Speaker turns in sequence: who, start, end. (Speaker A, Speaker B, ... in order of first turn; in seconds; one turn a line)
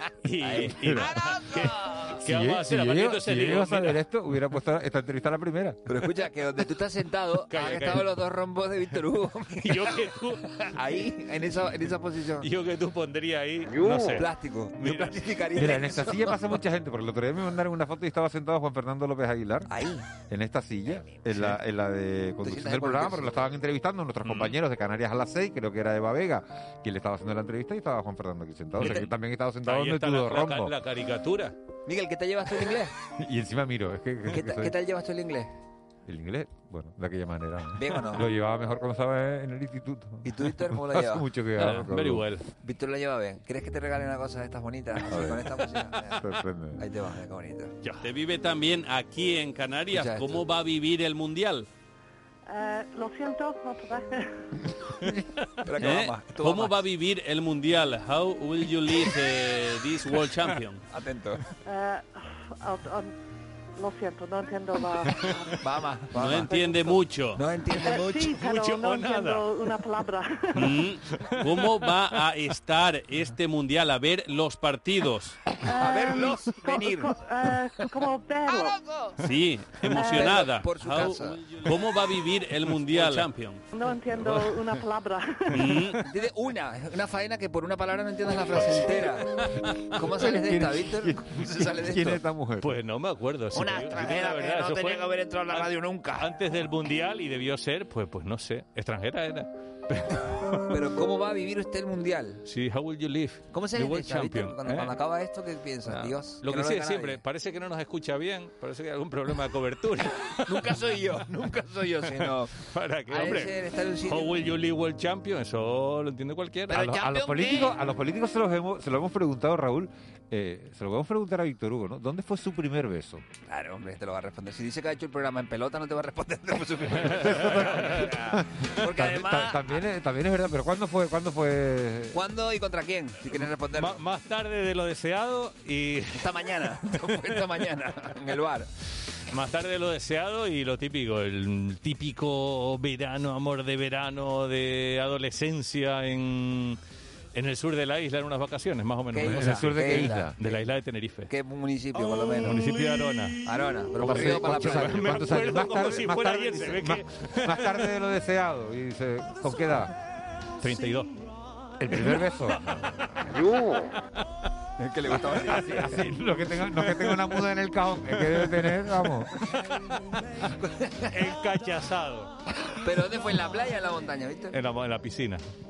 Speaker A: 0.2-4.0
Speaker B: 0.4-2.1
Speaker C: 0.8-1.2
Speaker C: 2.2-5.8
Speaker B: 5.9-12.5
Speaker A: 7.5-8.1
Speaker A: 9.6-11.1
Speaker A: 12.4-15.3
Speaker B: 13.8-16.4
Speaker C: 15.6-19.7
Speaker B: 19.7-20.1
Speaker C: 20.3-30.7
Speaker B: 22.4-23.4
Speaker A: 24.2-24.6
Speaker A: 28.8-29.1
Speaker B: 28.8-29.1
Speaker A: 29.7-31.6
Speaker B: 31.9-32.9
Speaker C: 33.2-34.7
Speaker B: 34.3-35.5
Speaker C: 36.1-42.3
Speaker B: 37.8-38.3
Speaker B: 40.2-41.3
Speaker A: 41.6-42.4
Speaker B: 42.6-46.2
Speaker C: 45.0-45.6
Speaker C: 46.1-46.9
Speaker B: 46.8-47.7
Speaker A: 47.8-48.1
Speaker D: 48.0-51.7
Speaker B: 49.9-50.5
Speaker E: 52.5-54.5
Speaker B: 55.6-56.8
Speaker D: 55.8-60.8
Speaker B: 60.9-61.4
Speaker E: 61.7-63.1
Speaker E: 63.8-65.5
Speaker B: 65.6-68.4
Speaker D: 66.1-67.4
Speaker E: 67.8-70.7
Speaker A: 68.3-69.4
Speaker D: 70.6-75.4
Speaker A: 70.6-71.6
Speaker E: 75.7-78.8
Speaker B: 75.8-77.2
Speaker B: 78.5-79.2
Speaker D: 79.2-83.7
Speaker B: 79.9-81.5
Speaker A: 82.7-83.3
Speaker E: 83.7-85.7
Speaker D: 85.5-86.0
Speaker A: 85.6-86.1
Speaker B: 86.0-89.4
Speaker B: 89.9-92.2
Speaker C: 90.0-92.8
Speaker A: 92.6-100.7
Speaker B: 93.5-96.3
Speaker B: 100.7-102.4
Speaker A: 102.5-105.0
Speaker B: 103.5-107.2
Speaker A: 105.9-110.9
Speaker B: 110.5-114.4
Speaker A: 112.1-116.9
Speaker C: 116.7-123.2
Speaker B: 116.7-117.7
Speaker B: 123.5-129.7
Speaker A: 127.1-128.1
Speaker C: 127.1-132.2
Speaker B: 132.1-134.0
Speaker A: 133.4-136.4
Speaker B: 136.2-138.7
Speaker A: 139.3-146.8
Speaker A: 147.3-151.3
Speaker B: 149.1-150.3
Speaker C: 149.2-150.3
Speaker B: 151.3-152.6
Speaker A: 152.0-153.4
Speaker B: 153.4-155.6
Speaker A: 154.0-157.9
Speaker C: 154.0-159.9
Speaker A: 160.6-161.2
Speaker C: 161.8-163.0
Speaker A: 161.9-162.3
Speaker B: 164.8-165.8
Speaker C: 165.4-169.3
Speaker A: 166.6-167.4
Speaker A: 168.1-168.8
Speaker B: 170.6-171.2
Speaker A: 171.1-172.3
Speaker B: 172.7-174.6
Speaker A: 174.5-175.4